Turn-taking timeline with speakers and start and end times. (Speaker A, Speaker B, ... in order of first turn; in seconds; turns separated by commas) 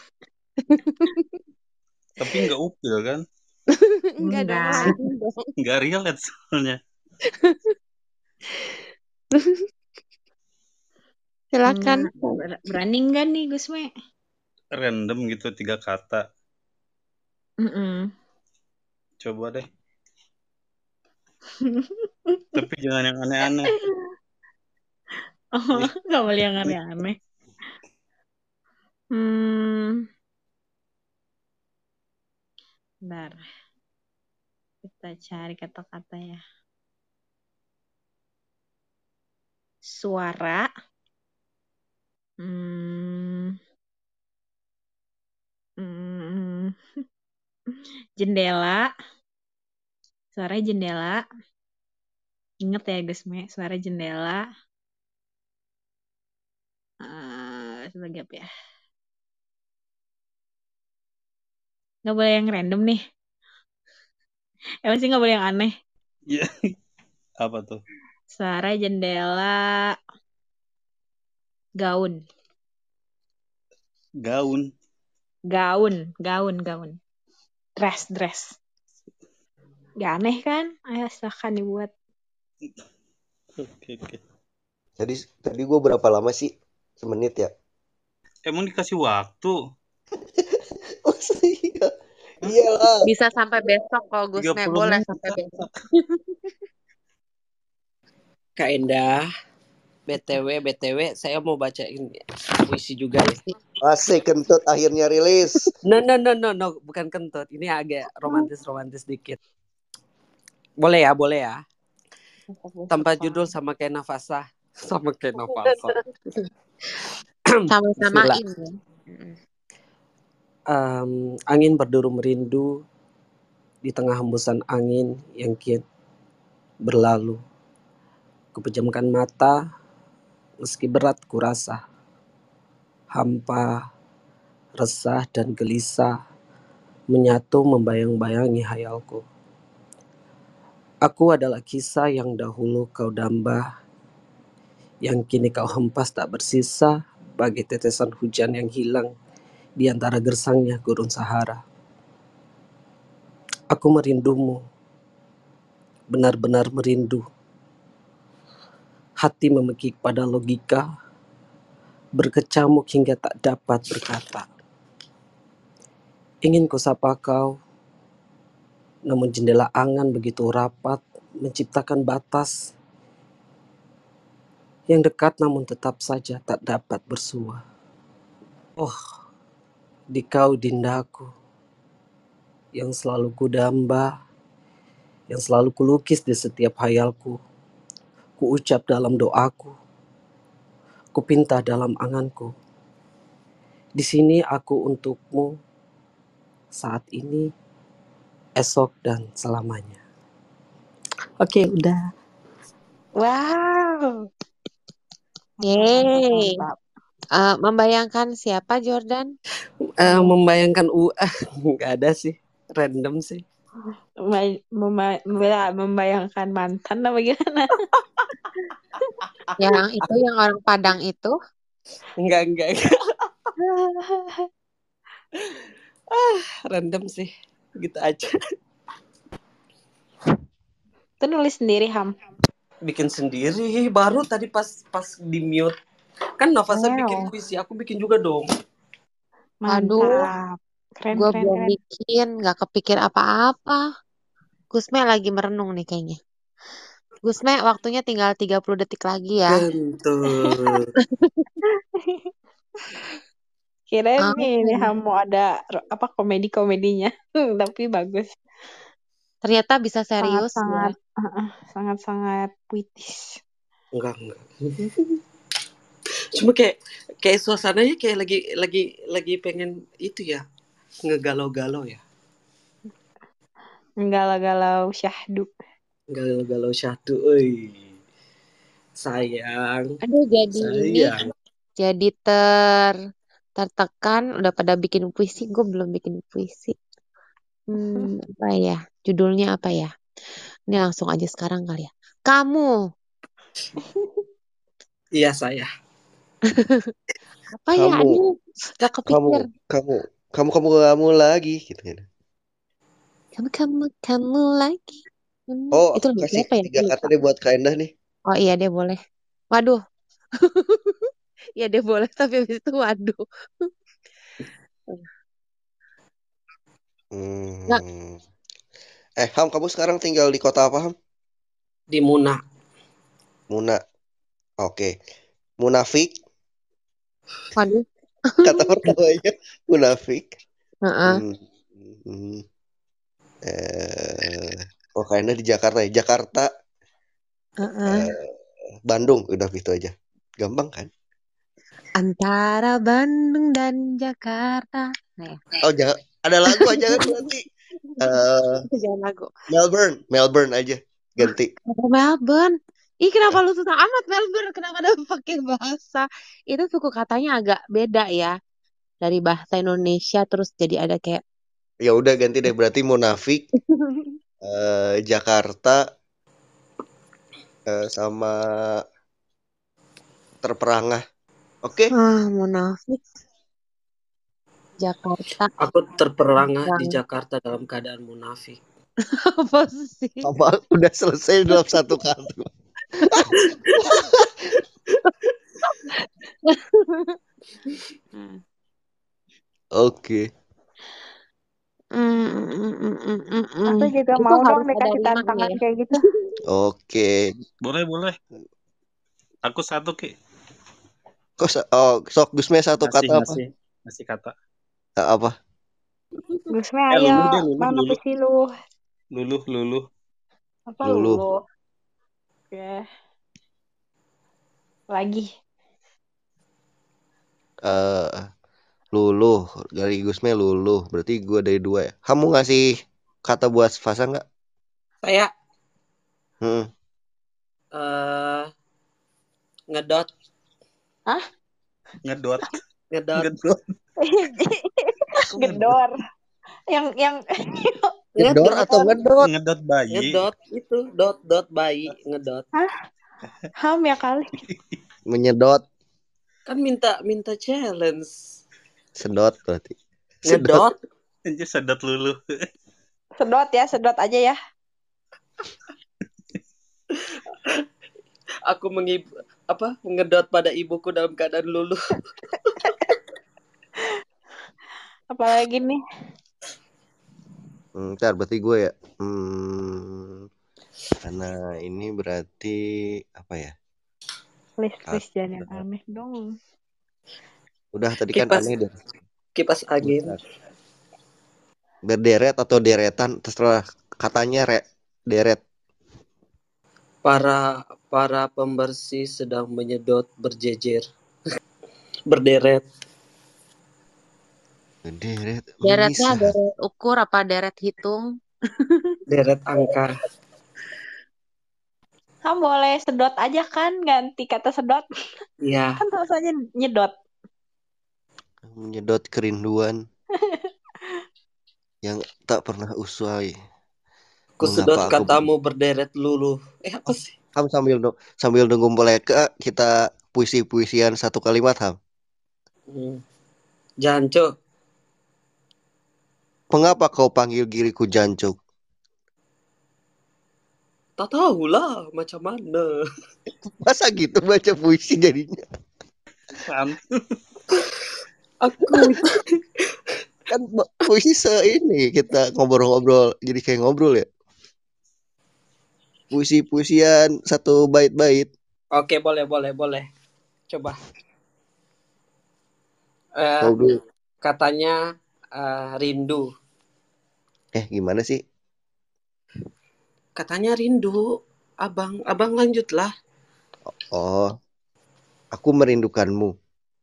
Speaker A: 0.6-1.3, Speaker B: 2.2-3.2, Speaker A: 3.8-5.5, Speaker C: 4.2-4.9, Speaker B: 5.6-6.8, Speaker A: 7.3-7.7, Speaker A: 9.3-9.7, Speaker A: 11.5-12.4, Speaker C: 11.7-13.9, Speaker B: 14.7-16.2, Speaker C: 17.6-18.1, Speaker B: 19.2-19.6, Speaker C: 21.6-22.4, Speaker B: 22.5-23.8, Speaker C: 25.6-27.2, Speaker C: 29.1-30.0, Speaker C: 33.1-33.4, Speaker C: 34.8-36.4, Speaker C: 39.9-40.7, Speaker C: 42.4-43.5, Speaker C: 45.8-46.7, Speaker C: 48.2-48.9, Speaker C: 50.3-51.2, Speaker C: 52.6-54.4, Speaker C: 57.0-58.5, Speaker C: 62.1-63.0, Speaker C: 64.8-65.7, Speaker B: 67.4-67.8, Speaker C: 68.3-69.9, Speaker C: 71.8-72.2, Speaker B: 74.2-74.7, Speaker C: 75.5-77.0, Speaker C: 77.8-78.5, Speaker C: 80.0-81.9, Speaker B: 83.6-84.2, Speaker D: 85.0-87.5, Speaker B: 88.5-89.5, Speaker D: 91.0-91.9, Speaker D: 92.4-93.0, Speaker A: 93.0-96.5, Speaker B: 94.4-95.7, Speaker E: 98.6-99.3, Speaker E: 100.1-103.4, Speaker A: 103.2-103.5, Speaker D: 103.8-105.6, Speaker E: 105.8-109.4, Speaker E: 110.8-111.6, Speaker A: 112.5-113.5, Speaker E: 112.9-116.0, Speaker A: 115.4-116.5, Speaker A: 117.7-119.4, Speaker E: 118.0-118.4, Speaker E: 120.7-122.8, Speaker E: 123.8-125.8, Speaker E: 126.8-127.4, Speaker E: 128.5-129.6, Speaker E: 130.6-131.8, Speaker E: 133.1-133.8, Speaker E: 134.8-136.1, Speaker E: 137.1-139.2, Speaker E: 141.0-143.7, Speaker E: 145.0-149.1, Speaker E: 149.8-151.6, Speaker E: 153.7-154.6, Speaker E: 156.1-157.2, Speaker E: 159.2-160.8, Speaker E: 162.2-164.4, Speaker E: 166.4-167.5, Speaker E: 169.1-172.7, Speaker E: 174.9-177.6, Speaker E: 180.1-181.3, Speaker E: 182.7-184.1, Speaker E: 185.3-187.4, Speaker E: 188.4-189.7, Speaker E: 191.1-192.5, Speaker E: 194.0-195.5, Speaker E: 196.8-197.4, Speaker E: 198.6-200.0, Speaker E: 201.4-202.0, Speaker C: 203.2-204.1, Speaker C: 205.6-206.8, Speaker A: 205.6-206.5, Speaker A: 207.4-209.3, Speaker E: 210.0-213.4, Speaker C: 210.0-210.3, Speaker C: 214.2-217.8, Speaker A: 219.6-221.3, Speaker E: 222.2-223.3, Speaker C: 223.7-224.4, Speaker E: 226.1-228.3, Speaker C: 231.2-232.1, Speaker E: 232.8-235.7, Speaker E: 236.4-238.5, Speaker A: 236.7-237.3, Speaker C: 239.6-241.7, Speaker A: 239.7-240.3, Speaker A: 241.1-243.8, Speaker A: 244.7-246.2, Speaker A: 247.2-249.6, Speaker E: 249.5-250.9, Speaker A: 250.3-251.5, Speaker C: 253.9-258.3, Speaker A: 254.2-254.9, Speaker A: 259.4-260.9, Speaker C: 260.2-263.3, Speaker E: 263.9-265.1, Speaker E: 266.4-270.4, Speaker E: 271.0-272.0, Speaker C: 274.0-275.5, Speaker E: 276.1-277.8, Speaker E: 279.0-279.9, Speaker A: 280.0-281.1, Speaker E: 280.5-281.3, Speaker A: 281.8-282.9, Speaker A: 283.6-286.8, Speaker A: 287.7-289.9, Speaker A: 290.7-292.7, Speaker E: 295.1-295.7, Speaker A: 296.5-296.9, Speaker A: 297.5-299.4, Speaker D: 297.8-298.2, Speaker D: 299.1-302.0, Speaker A: 303.4-307.1, Speaker D: 305.7-307.9, Speaker A: 308.3-309.0, Speaker A: 309.5-309.8, Speaker A: 310.4-313.7, Speaker D: 317.1-318.2, Speaker D: 319.2-320.9, Speaker E: 321.9-322.4, Speaker D: 323.5-323.8, Speaker D: 324.6-324.9, Speaker D: 325.6-326.1, Speaker A: 327.5-328.9, Speaker D: 328.4-330.4, Speaker A: 330.9-331.2, Speaker D: 331.0-332.4, Speaker D: 333.4-336.5, Speaker A: 337.6-338.1, Speaker D: 337.9-338.3, Speaker D: 338.9-340.9, Speaker A: 342.0-345.4, Speaker D: 345.6-347.4, Speaker A: 346.5-347.1, Speaker D: 348.0-348.6, Speaker A: 348.7-349.3, Speaker D: 349.5-351.5, Speaker A: 351.2-358.3, Speaker A: 359.0-361.2, Speaker D: 361.8-363.4, Speaker A: 363.7-364.1, Speaker D: 364.4-365.8, Speaker D: 367.7-368.8, Speaker D: 370.4-371.0, Speaker D: 371.6-371.9, Speaker A: 371.9-373.0, Speaker A: 374.8-375.5, Speaker E: 375.6-378.6, Speaker A: 376.4-377.0, Speaker A: 379.1-380.3, Speaker D: 380.2-382.5, Speaker D: 383.1-384.3, Speaker A: 384.9-387.2, Speaker A: 387.7-388.2, Speaker D: 389.8-390.2, Speaker A: 391.9-395.6, Speaker C: 393.7-396.0, Speaker D: 396.5-397.4, Speaker B: 397.6-398.2, Speaker B: 399.4-400.1, Speaker D: 401.4-403.4, Speaker B: 402.8-404.3, Speaker D: 405.0-405.4, Speaker C: 406.5-408.4, Speaker B: 406.9-408.0, Speaker B: 409.1-409.8, Speaker C: 410.7-411.4, Speaker D: 410.8-411.2, Speaker C: 412.5-412.8, Speaker C: 414.9-415.2, Speaker D: 417.6-418.2, Speaker D: 418.9-424.2, Speaker E: 425.0-425.3, Speaker D: 426.4-426.7, Speaker E: 427.7-428.5, Speaker E: 429.7-430.1, Speaker B: 432.0-432.6, Speaker E: 432.9-433.3, Speaker B: 433.2-433.6, Speaker C: 434.0-435.9, Speaker B: 435.3-435.8, Speaker C: 436.7-437.9, Speaker D: 438.2-439.3, Speaker E: 438.2-438.9, Speaker B: 439.2-440.2, Speaker E: 439.9-442.4, Speaker C: 443.6-444.4, Speaker D: 445.1-445.6, Speaker E: 446.5-448.1, Speaker D: 449.0-450.6, Speaker E: 450.2-450.8, Speaker B: 451.3-452.2, Speaker C: 453.2-454.4, Speaker E: 458.5-461.8, Speaker C: 462.6-462.9, Speaker C: 465.1-465.8, Speaker D: 467.8-470.2, Speaker D: 471.0-472.6, Speaker D: 473.1-473.5, Speaker C: 474.6-476.3, Speaker D: 474.9-475.6, Speaker D: 477.7-478.7, Speaker E: 478.1-478.5, Speaker E: 479.4-480.2, Speaker D: 479.8-480.2, Speaker D: 481.8-485.4, Speaker E: 487.0-490.9, Speaker E: 492.1-492.6, Speaker D: 494.8-496.4, Speaker A: 495.6-498.9, Speaker E: 499.1-500.0, Speaker C: 502.3-504.8, Speaker E: 505.4-505.8, Speaker C: 505.8-506.9, Speaker D: 508.4-509.8, Speaker D: 511.8-513.4, Speaker E: 514.4-517.1, Speaker D: 514.4-515.3, Speaker D: 516.9-521.8, Speaker E: 522.7-523.0, Speaker E: 523.8-524.3, Speaker D: 526.5-528.4, Speaker E: 531.0-532.8, Speaker D: 533.6-535.4, Speaker B: 536.3-536.8, Speaker E: 538.4-539.2, Speaker D: 538.7-538.9, Speaker D: 540.3-544.1, Speaker D: 546.1-548.3, Speaker E: 548.7-549.9, Speaker E: 550.5-550.8, Speaker E: 553.2-554.8, Speaker D: 553.4-553.8, Speaker E: 555.4-556.2, Speaker D: 557.5-558.2, Speaker E: 560.2-562.9, Speaker D: 563.7-564.3, Speaker D: 565.3-566.3